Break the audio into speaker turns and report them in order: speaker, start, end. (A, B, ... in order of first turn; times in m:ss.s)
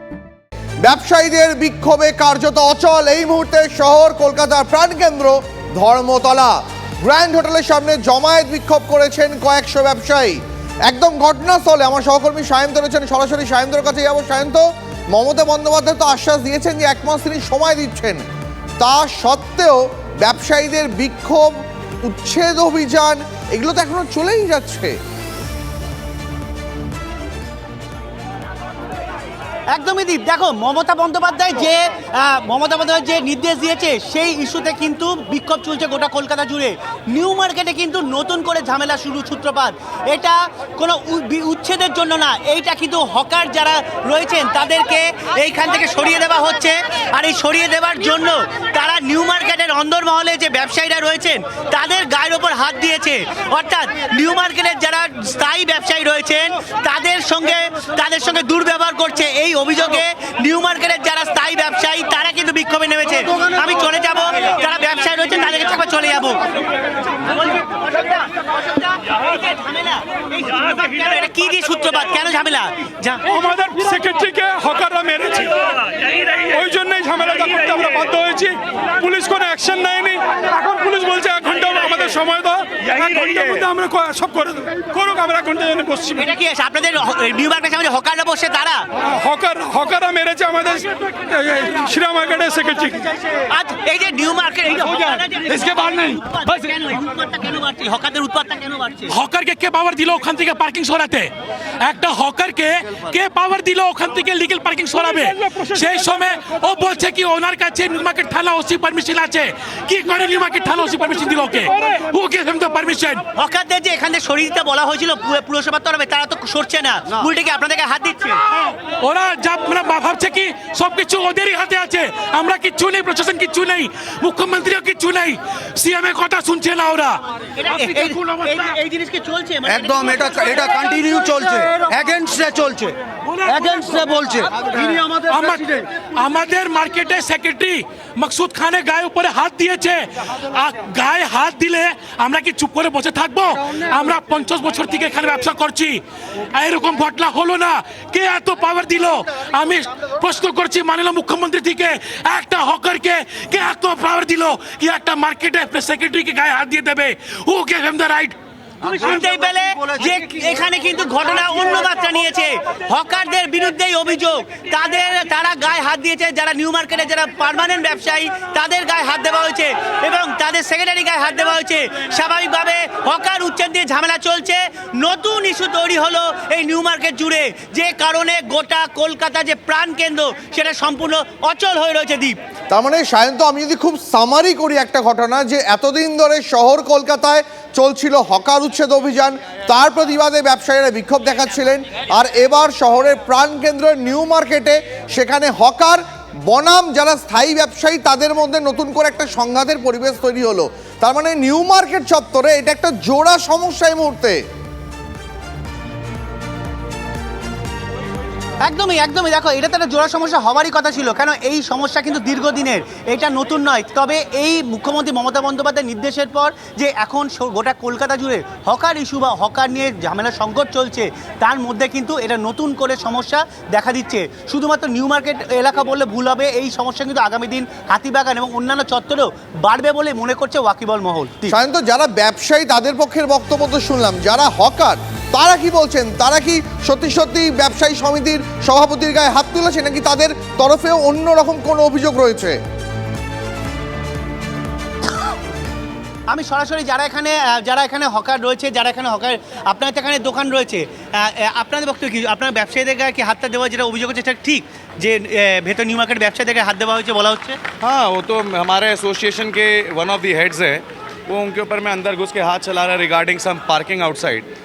0:00.8-0:18.2 A
0:18.8-0:24.9 A
0:29.7-1:13.2 B
1:13.3-1:15.6 C
1:16.4-1:26.2 C
1:26.1-1:28.9 B
1:29.2-1:33.1 C
1:33.5-1:39.1 B
1:35.6-1:36.0 C
1:39.1-1:53.2 D
1:53.4-1:58.4 B
1:58.7-2:07.2 D
2:07.6-2:11.9 B
2:07.8-2:08.6 D
2:10.1-2:12.9 E
2:13.3-2:26.0 D
2:14.2-2:14.7 E
2:26.5-2:38.4 D
2:38.8-3:02.4 B
3:02.7-3:24.4 A
3:28.6-3:51.6 B
3:51.5-4:02.6 A
4:06.3-4:17.6 B
4:17.8-4:24.5 F